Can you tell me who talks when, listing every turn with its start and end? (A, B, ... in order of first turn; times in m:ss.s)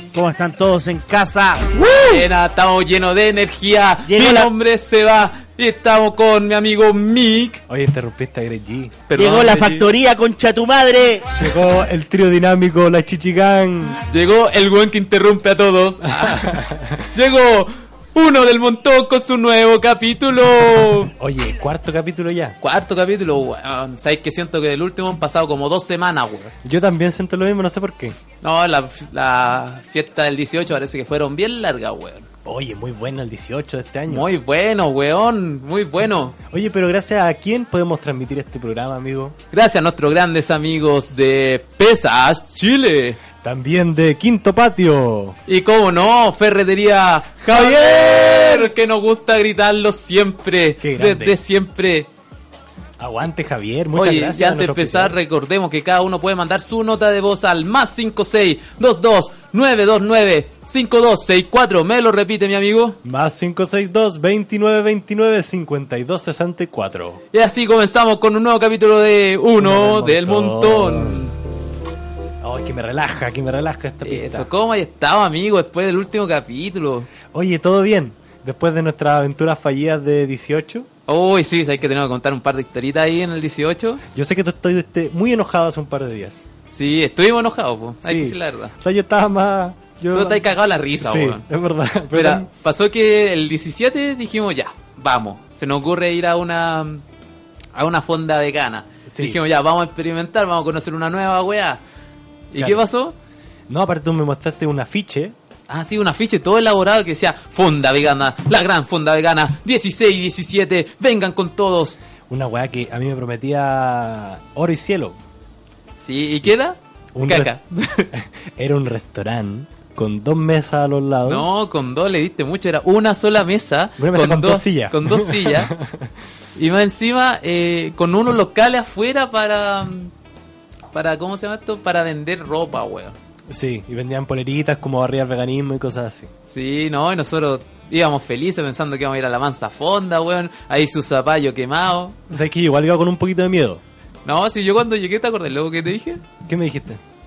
0:00.1-0:02.0 A
0:01.8-0:07.6 B
0:04.0-0:04.5 A
0:07.7-0:09.0 C
0:09.1-0:09.9 B
0:09.1-0:11.3 A
0:11.3-0:14.0 C
0:14.1-0:21.1 B
0:16.0-0:17.0 C
0:21.2-0:22.6 C
0:22.6-0:26.5 B
0:26.6-0:28.2 C
0:28.4-0:32.3 B
0:32.4-0:34.3 C
0:34.1-0:36.4 B
0:36.5-0:39.4 C
0:39.5-0:43.2 B
0:43.4-0:45.4 C
0:45.5-0:52.1 B
0:47.4-0:48.7 C
0:50.8-0:51.4 C
0:53.0-0:55.2 C
0:53.9-1:03.0 B
1:03.0-1:07.2 C
1:07.3-1:11.3 B
1:09.6-1:11.2 C
1:12.4-1:14.5 C
1:14.0-1:17.1 B
1:17.3-1:20.9 C
1:21.1-1:24.0 B
1:24.1-1:26.4 C
1:26.7-1:28.7 B
1:28.0-1:30.4 C
1:30.1-1:31.4 B
1:31.0-1:32.5 C
1:32.1-1:37.0 B
1:37.7-1:41.8 B
1:39.1-1:39.4 C
1:42.5-1:43.2 B
1:42.6-1:42.8 C
1:43.7-1:45.4 C
1:45.7-1:52.0 B
1:52.3-1:55.2 C
1:56.0-1:58.1 B
1:57.1-1:57.5 C
1:58.1-2:01.5 C
2:01.2-2:05.7 B
2:04.0-2:06.1 C
2:06.6-2:10.1 B
2:10.9-2:13.2 B
2:13.5-2:16.3 C
2:16.5-2:22.3 B
2:22.3-2:23.8 C
2:24.2-2:26.2 B
2:26.4-2:27.0 C